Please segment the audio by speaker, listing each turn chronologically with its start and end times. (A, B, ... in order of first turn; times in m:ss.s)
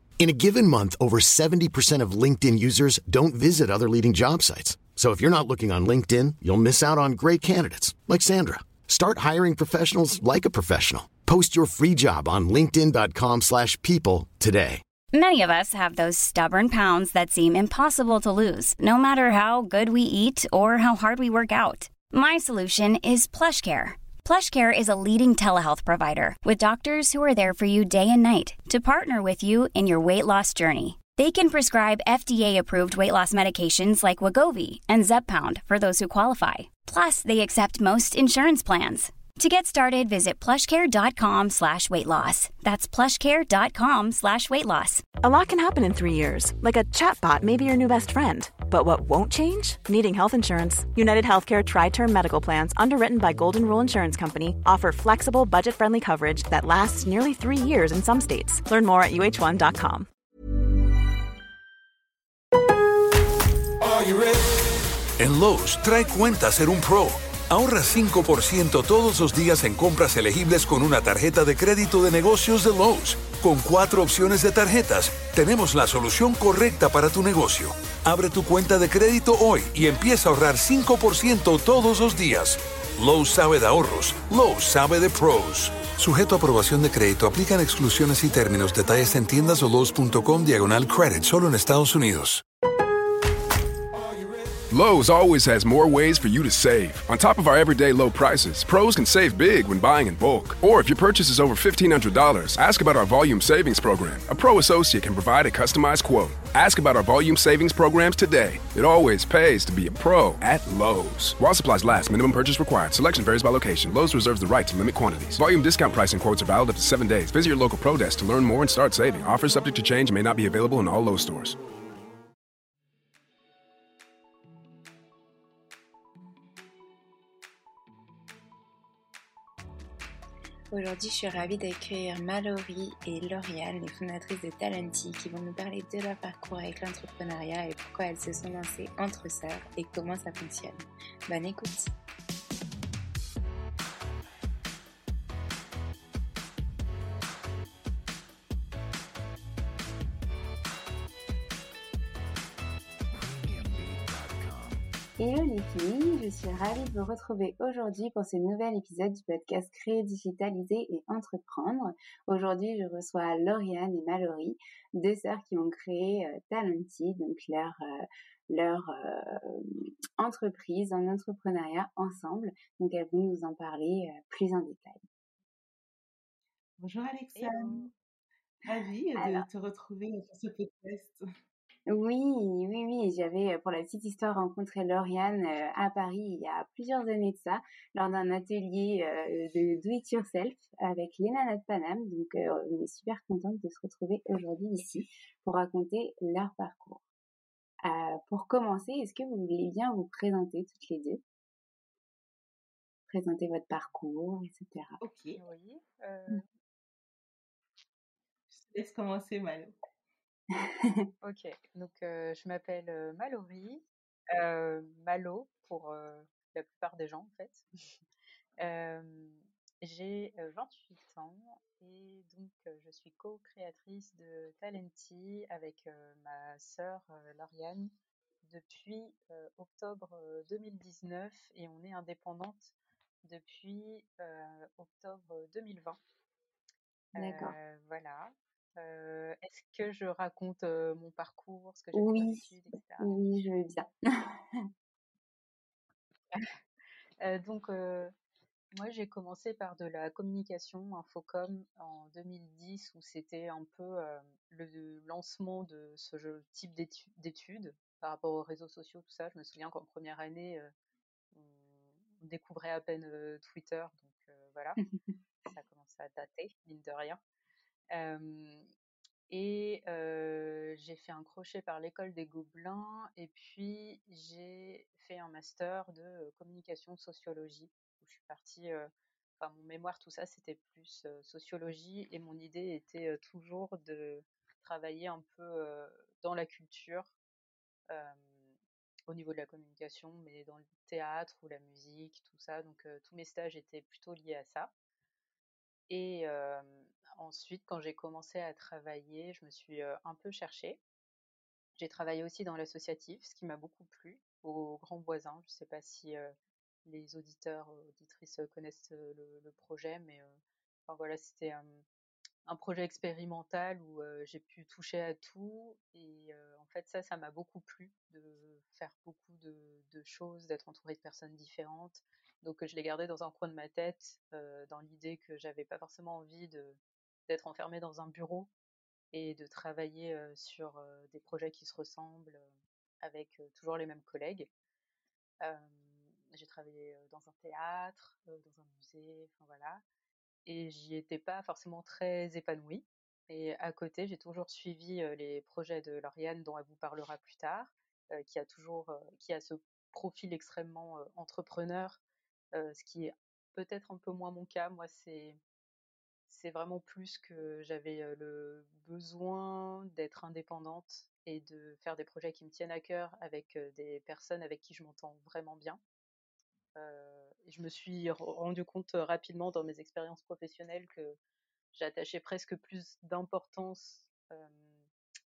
0:00.2-0:14.8 A
0:15.1-0:45.0 B
0:45.2-1:00.1 C
1:05.2-1:32.4 D
1:34.7-2:01.6 E
2:10.7-2:21.9 F
2:35.2-2:55.0 F
2:56.8-2:57.9 G
2:57.3-2:57.9 H
2:58.6-3:01.2 G
2:59.2-2:59.4 F
3:01.9-3:17.0 F
3:17.8-3:21.2 F
3:23.1-3:25.0 F
3:25.0-3:25.4 G
3:25.4-3:26.4 H
3:28.5-3:29.7 G
3:30.5-3:31.0 F
3:31.2-3:37.6 H
3:38.6-3:47.9 H
3:48.4-3:52.7 H
3:53.2-3:56.0 H
3:57.2-3:57.5 F
3:57.2-4:03.1 H
4:01.9-4:02.5 F
4:03.0-4:04.7 F
4:07.2-4:08.1 H
4:08.7-4:20.7 H
4:21.3-4:24.8 H
4:25.5-4:27.2 H
4:27.9-4:28.6 H
4:29.3-4:47.1 H
4:47.9-4:48.5 H
4:49.1-4:54.7 H
4:55.9-5:00.8 H
5:01.8-5:06.3 H
5:06.8-5:11.8 H
5:12.4-5:28.5 H
5:29.1-5:32.5 H
5:33.0-5:34.5 H
5:35.4-5:39.8 H
5:40.4-5:52.0 H
5:52.5-5:55.4 H
5:56.3-6:05.8 H
6:06.7-6:11.2 H
6:11.7-6:14.8 H